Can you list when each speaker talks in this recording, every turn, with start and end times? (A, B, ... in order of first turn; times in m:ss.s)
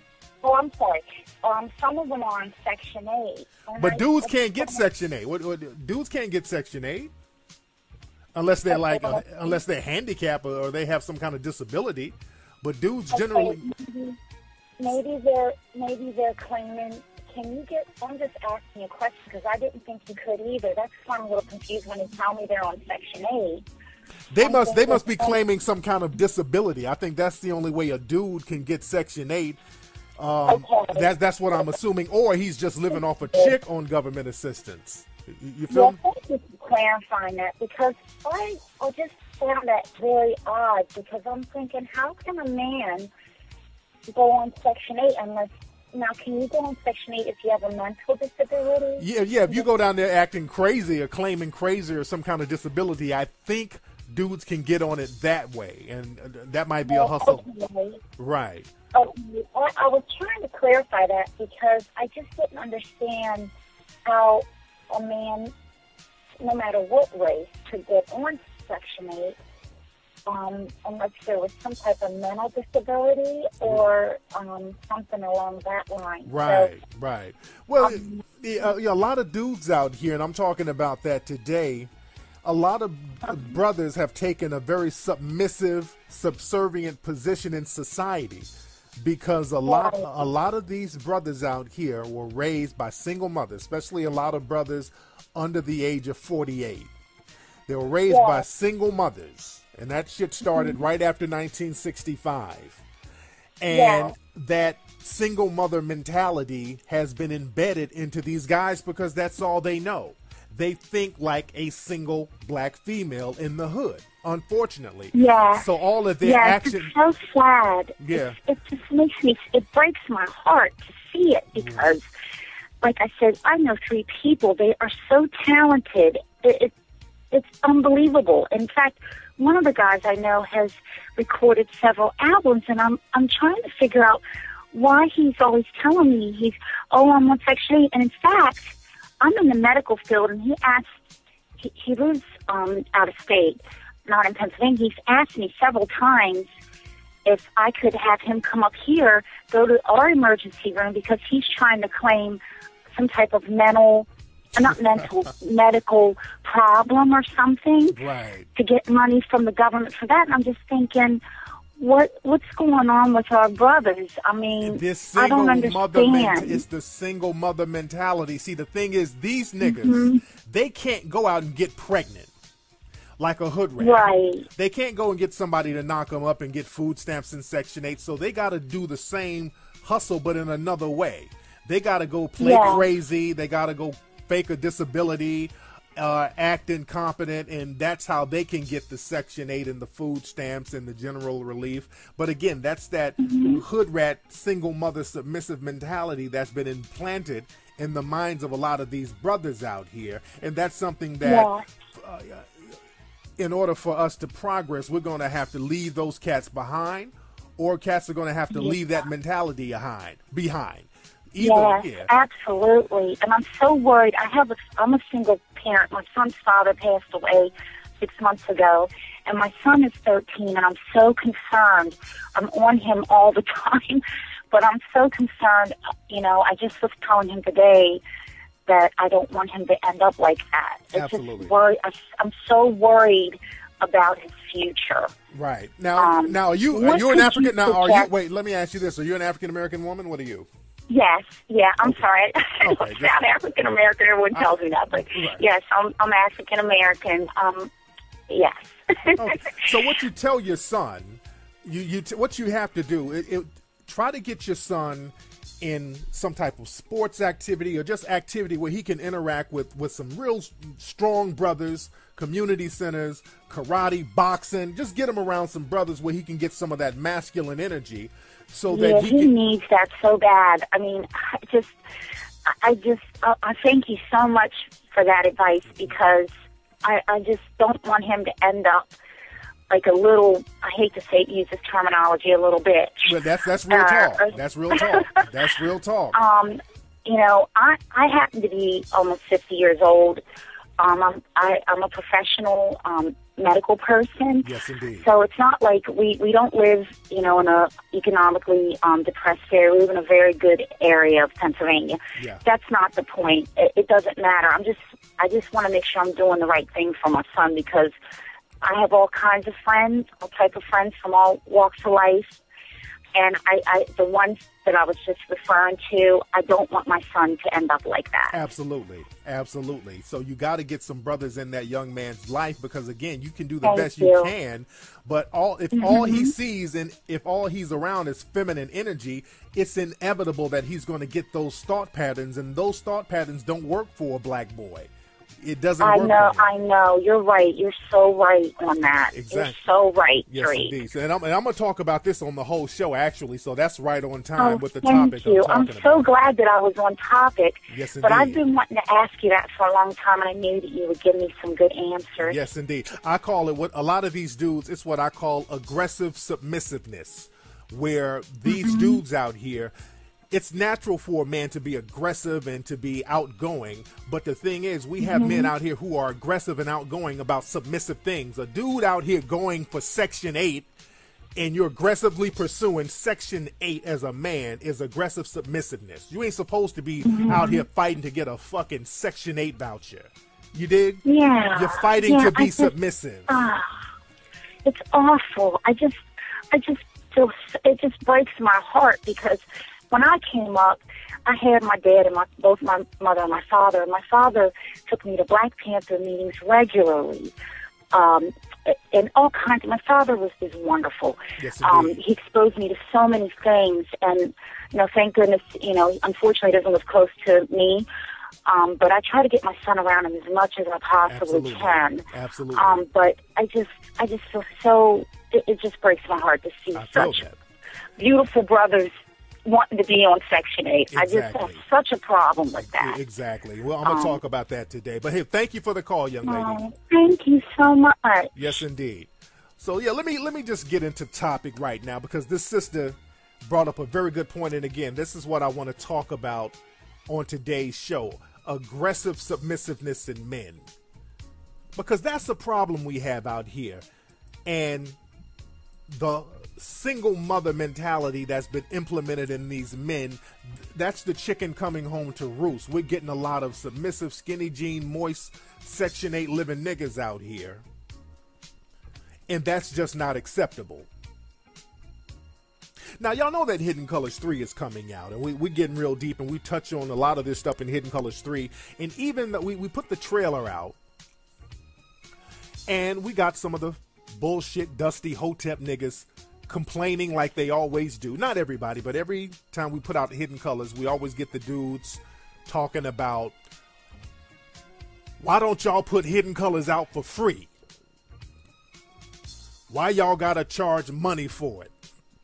0:00.4-0:04.8 A
0:03.8-0:07.1 B
0:08.3-0:13.6 B
0:08.7-0:09.6 A
0:13.1-0:14.2 A
0:14.8-0:23.6 A
0:24.3-0:29.6 B
0:24.4-0:25.4 A
0:30.2-0:36.0 B
0:30.5-0:31.7 A
0:35.7-0:43.1 A
0:44.1-0:49.6 A
0:49.0-0:57.4 B
0:56.8-0:58.0 A
0:58.2-0:58.7 B
0:58.9-1:03.5 A
1:04.1-1:05.5 A
1:06.4-1:09.4 A
1:10.3-1:16.7 A
1:16.2-1:21.9 B
1:17.8-1:18.2 A
1:22.4-1:36.9 B
1:29.7-1:30.3 A
1:37.7-1:42.8 B
1:38.1-1:38.4 A
1:40.5-1:40.8 A
1:43.6-1:56.9 B
1:43.7-1:44.2 A
1:55.1-1:55.7 A
1:56.2-2:02.1 A
1:58.0-1:58.4 B
2:01.6-2:01.9 B
2:02.8-2:06.7 A
2:07.3-2:14.2 A
2:14.7-2:20.9 A
2:21.6-2:26.5 A
2:27.2-2:32.4 A
2:32.9-2:38.0 A
2:37.9-2:38.5 B
2:38.6-2:41.2 A
2:41.8-2:46.6 A
2:44.6-2:52.3 B
2:49.6-2:50.2 A
2:53.2-3:22.5 B
2:53.8-2:54.5 A
3:02.4-3:02.8 A
3:13.2-3:13.6 A
3:21.2-3:21.6 A
3:23.4-3:32.1 B
3:31.4-3:48.0 A
3:48.7-3:55.1 A
3:50.9-3:51.5 B
3:55.3-4:00.5 B
3:56.0-3:58.1 A
4:00.9-4:07.7 A
4:02.6-4:03.2 B
4:04.3-4:05.4 B
4:08.3-4:09.8 A
4:09.2-4:29.3 B
4:28.7-4:31.8 A
4:32.5-4:36.3 A
4:36.8-4:38.9 A
4:39.7-4:43.1 A
4:43.0-4:46.2 B
4:43.7-4:45.2 A
4:46.1-4:50.2 A
4:50.8-5:08.0 A
4:54.4-4:55.1 B
5:02.2-5:02.4 B
5:08.6-5:12.4 A
5:13.1-5:18.4 A
5:18.3-5:36.5 B
5:23.6-5:24.3 A
5:25.7-5:26.3 A
5:35.8-5:40.8 A
5:39.1-5:39.6 B
5:40.3-5:46.1 B
5:44.4-5:52.4 A
5:47.7-5:48.4 B
5:52.2-5:59.7 B
5:58.5-5:59.0 A
6:00.3-6:10.7 B
6:05.0-6:05.5 A
6:11.4-6:23.4 B
6:17.0-6:17.6 A
6:21.0-6:22.7 A
6:23.3-6:23.8 A
6:24.6-6:37.3 A
6:37.9-6:47.9 A
6:41.4-6:42.0 B
6:48.5-6:57.3 A
6:51.1-6:52.8 B
6:56.7-6:57.4 B
6:58.0-6:58.9 A
6:59.4-7:03.0 A
7:00.9-7:01.6 B
7:02.6-7:06.6 B
7:03.8-7:04.2 A
7:06.2-7:08.4 A
7:08.4-7:16.6 B
7:17.1-7:20.7 B
7:21.8-7:23.8 B
7:24.5-7:25.0 B
7:25.9-7:37.6 B
7:39.3-7:40.9 B
7:43.0-7:50.8 B
7:52.7-8:03.4 B
8:05.2-8:07.5 B
8:09.7-8:11.7 B